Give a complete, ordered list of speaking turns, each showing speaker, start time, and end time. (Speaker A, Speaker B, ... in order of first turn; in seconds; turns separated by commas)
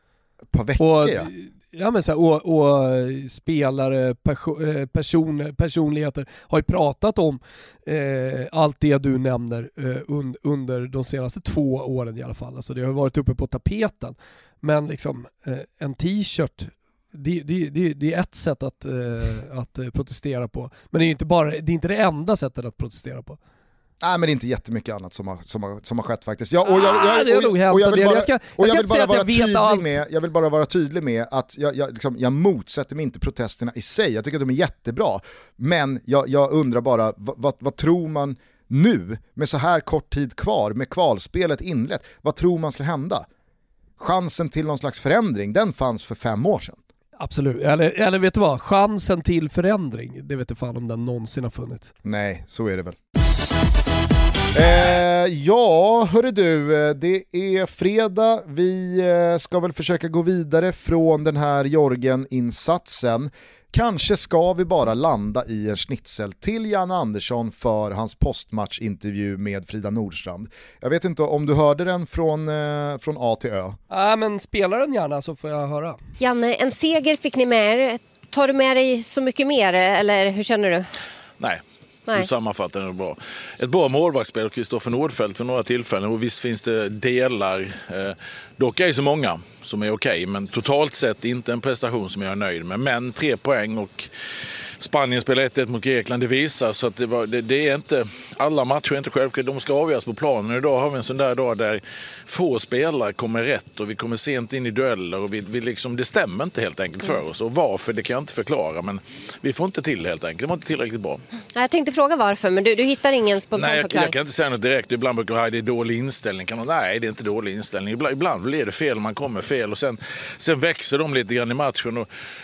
Speaker A: 0.5-1.3, Speaker B: 0.8-23.4, Speaker A: 24.0-43.3, Speaker B: 26.6-29.9, Speaker A: 44.0-46.8, Speaker B: 47.2-51.9, Speaker A: 52.0-53.0, Speaker A: 54.5-73.8, Speaker B: 73.9-76.0, Speaker C: 76.2-80.8, Speaker D: 82.1-94.1, Speaker D: 94.8-111.2, Speaker C: 111.5-114.1, Speaker D: 113.5-122.1